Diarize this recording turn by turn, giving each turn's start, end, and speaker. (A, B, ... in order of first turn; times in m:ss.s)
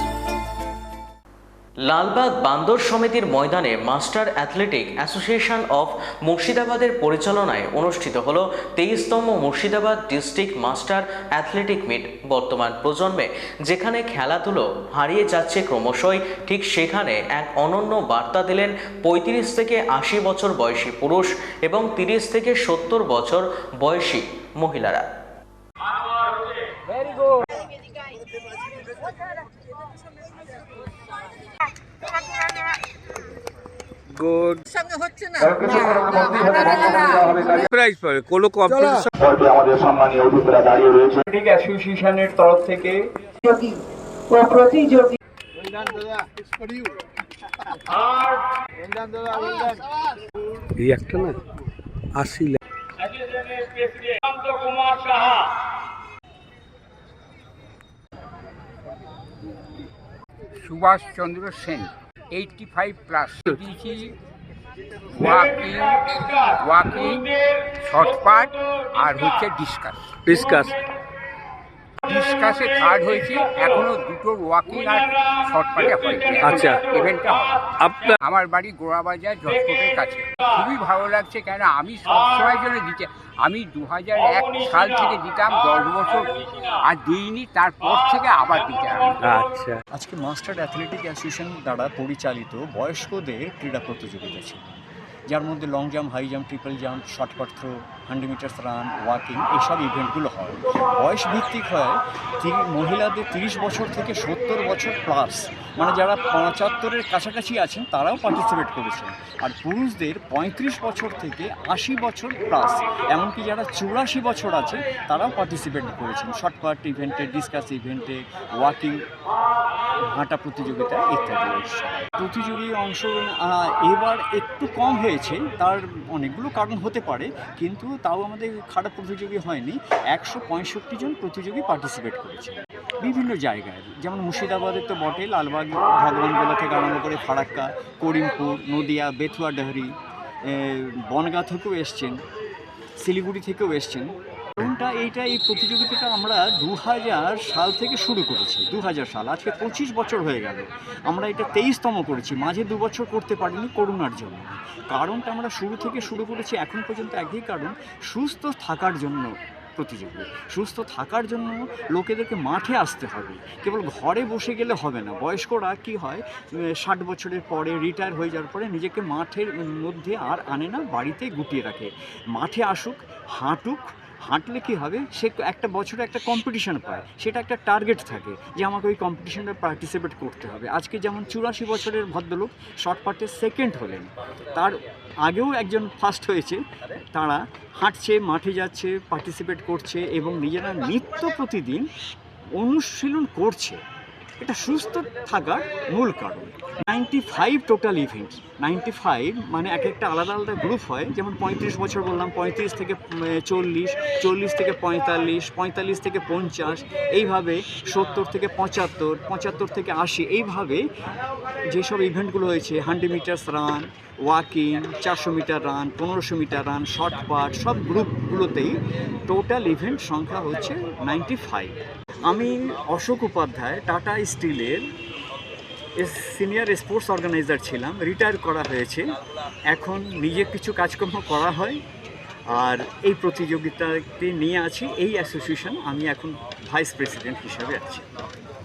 0:01.8-0:25.0 A
0:34.1-0:34.6 B
0:35.4-0:37.7 C
0:37.7-0:39.1 B
0:39.2-0:41.2 C
0:41.2-0:43.1 D
0:50.8-0:51.4 B
0:52.1-0:52.6 B
1:00.6-1:04.1 E
1:05.1-1:10.1 E
1:10.3-1:10.8 B
1:12.0-1:29.2 E
1:16.4-1:16.9 B
1:17.8-1:18.2 B
1:29.2-1:29.8 B
1:29.9-1:34.7 D
1:35.3-1:59.0 D
2:00.0-2:19.9 D
2:20.4-2:22.2 D
2:23.0-3:11.9 D
3:12.6-3:13.8 D
3:14.4-3:30.8 D
3:31.7-3:38.7 D
3:39.3-3:44.9 D
3:46.0-3:49.0 D
3:49.7-3:51.8 D
3:52.5-3:58.0 D